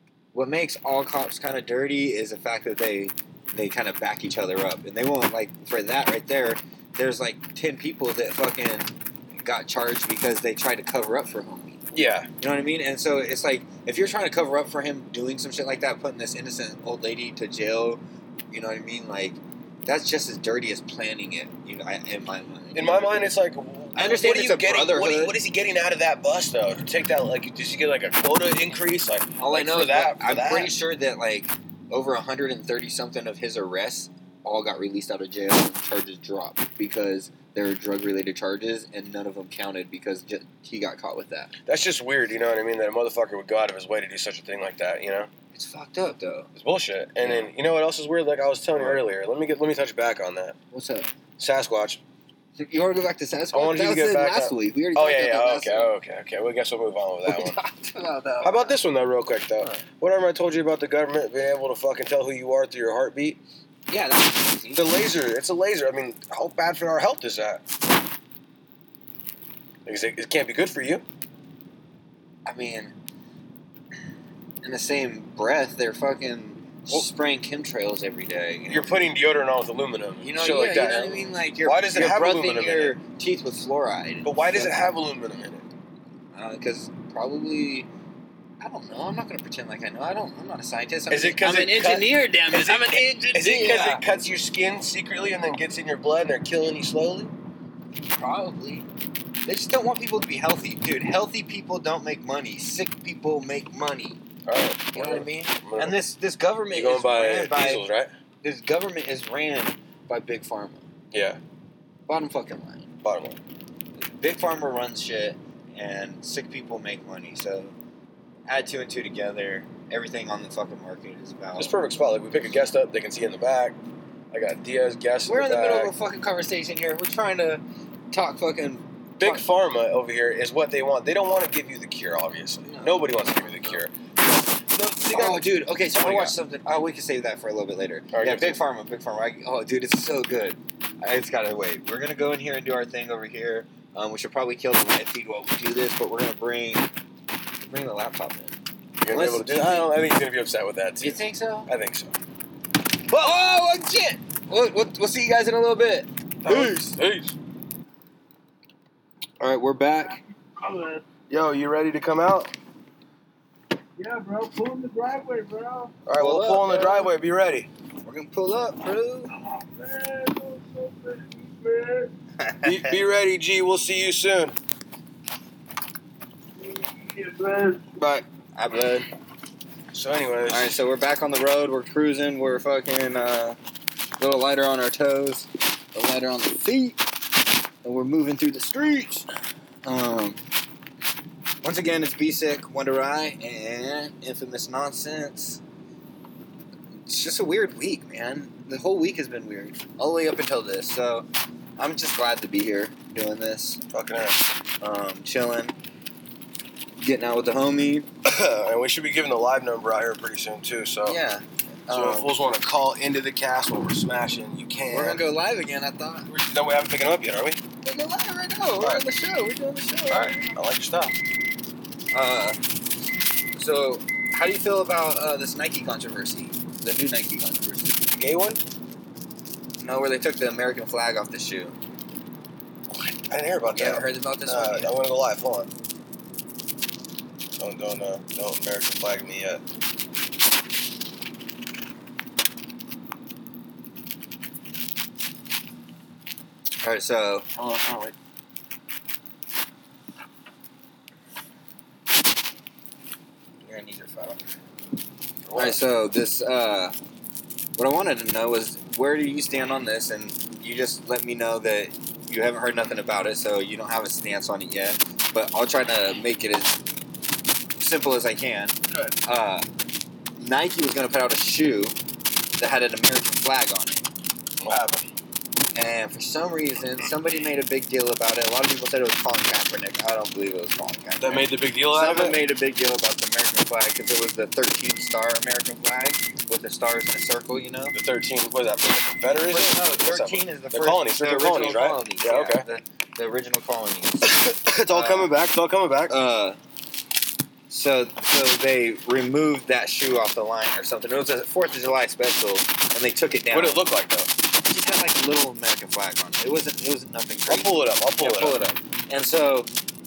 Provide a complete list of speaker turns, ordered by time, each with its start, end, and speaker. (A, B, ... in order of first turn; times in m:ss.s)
0:00.3-0:11.8 A
0:11.9-0:12.3 B
0:12.4-0:23.4 A
0:22.7-0:30.7 B
0:23.9-0:25.3 A
0:29.4-0:41.5 A
0:41.6-0:45.3 B
0:45.5-0:46.5 A
0:46.6-0:50.6 B
0:47.2-0:47.5 A
0:48.8-0:49.0 A
0:50.7-0:51.1 A
0:51.4-0:52.0 B
0:52.6-0:55.9 A
0:53.5-0:57.6 B
0:57.2-0:58.8 A
0:58.4-1:03.4 B
1:03.9-1:04.9 A
1:04.7-1:07.6 B
1:09.8-1:11.0 B
1:12.4-1:12.9 A
1:14.6-1:19.0 A
1:18.7-1:23.0 B
1:20.2-1:24.8 A
1:24.2-1:25.6 B
1:26.3-1:27.9 A
1:28.6-1:34.0 A
1:31.1-1:37.3 B
1:38.2-1:38.9 A
1:39.4-1:44.2 A
1:44.4-1:46.0 B
1:44.9-1:47.8 A
1:46.7-1:48.1 B
1:48.4-1:50.8 A
1:51.1-1:51.4 B
1:52.1-1:52.9 A
1:53.0-1:53.4 B
1:54.0-1:57.7 A
1:58.5-2:01.7 A
2:01.6-2:03.8 B
2:04.3-2:05.9 B
2:05.2-2:09.4 A
2:09.2-2:14.1 B
2:12.6-2:13.8 A
2:14.7-2:16.4 B
2:15.1-2:26.9 A
2:18.1-2:18.6 B
2:27.6-2:28.6 A
2:29.0-2:32.1 B
2:29.1-2:29.9 A
2:31.0-2:31.7 A
2:33.1-2:36.9 A
2:36.4-2:37.4 B
2:39.4-2:40.2 A
2:40.6-2:41.0 C
2:41.3-2:42.5 B
2:44.0-2:45.9 C
2:46.0-2:47.7 B
2:46.2-2:46.9 A
2:46.6-2:47.0 C
2:48.0-2:49.3 A
2:49.7-2:52.1 C
2:52.4-2:53.0 A
2:52.6-2:54.6 B
2:56.6-2:57.8 C
2:58.0-2:58.2 B
2:58.5-2:59.0 A
2:59.9-3:00.8 B
3:00.5-3:03.6 A
3:04.2-3:07.0 A
3:07.8-3:09.2 A
3:09.8-3:10.4 A
3:11.6-3:15.6 A
3:17.0-3:21.2 A
3:21.8-3:23.8 A
3:23.9-3:24.5 B
3:24.8-3:25.8 A
3:27.0-3:28.1 A
3:28.2-3:31.2 B
3:31.0-3:32.4 A
3:31.9-3:35.2 B
3:34.9-3:36.3 A
3:36.3-3:37.6 B
3:37.8-3:40.5 A
3:38.8-3:39.0 B
3:40.1-3:41.2 B
3:42.1-3:42.6 A
3:43.5-3:47.9 A
3:48.1-3:48.6 B
3:49.8-3:51.7 A
3:52.9-3:55.7 B
3:53.7-3:54.9 A
3:57.6-3:59.6 B
4:06.8-4:07.5 A
4:07.6-4:08.1 B
4:13.6-4:14.4 A
4:15.4-4:15.8 B
4:15.6-4:16.9 A
4:17.8-4:26.8 A
4:27.8-4:29.6 A
4:30.4-4:31.9 A
4:32.6-4:34.1 A
4:34.6-4:35.0 B
4:35.7-4:48.0 A
4:41.2-4:42.4 B
4:47.9-4:52.6 B
4:49.4-4:54.3 A
4:54.2-4:56.1 B
4:54.9-4:55.3 A
4:56.1-4:56.6 A
4:57.7-5:03.8 A
5:03.5-5:04.3 B
5:04.7-5:09.7 A
5:07.5-5:08.6 B